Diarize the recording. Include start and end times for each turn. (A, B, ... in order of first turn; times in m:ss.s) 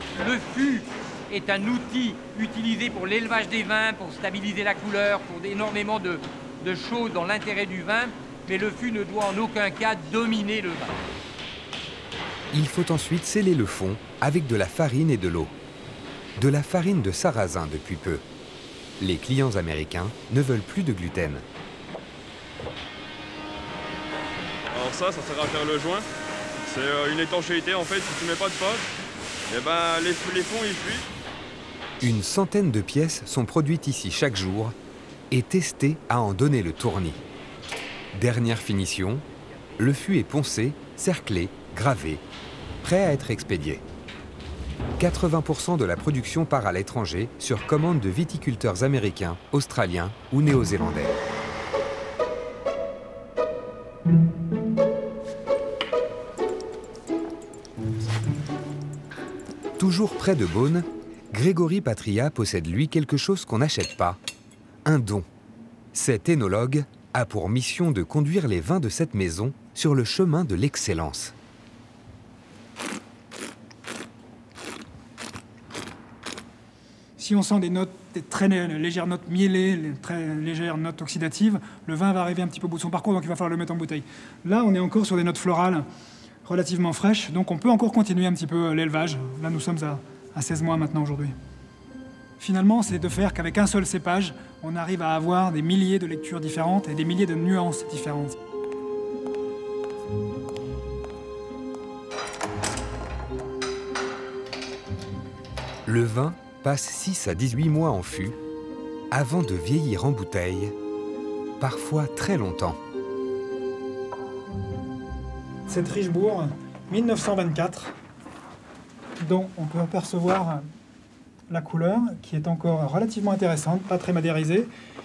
0:00.1-0:11.0 A
0:12.5-0:15.5 B
0:16.4-0:18.2 B
0:19.0-0:21.4 B
0:24.7-0:26.0 C
0:26.6-0:28.8 C
0:29.5-0:31.0 C
0:32.0-0:34.8 B
0:35.3-0:37.2 B
0:38.1-0:39.2 B
0:39.8-0:42.2 B
0:42.8-0:43.8 B
0:45.0-0:51.2 B
0:59.8-1:04.2 B
1:04.8-1:05.3 B
1:05.9-1:11.3 B
1:17.2-1:25.8 D
1:26.4-1:31.3 D
1:32.4-1:38.4 D
1:45.9-1:48.4 B
1:49.1-1:50.8 B
1:51.6-1:52.8 B
1:55.7-1:58.0 D
1:59.2-2:00.6 D
2:01.5-2:04.7 D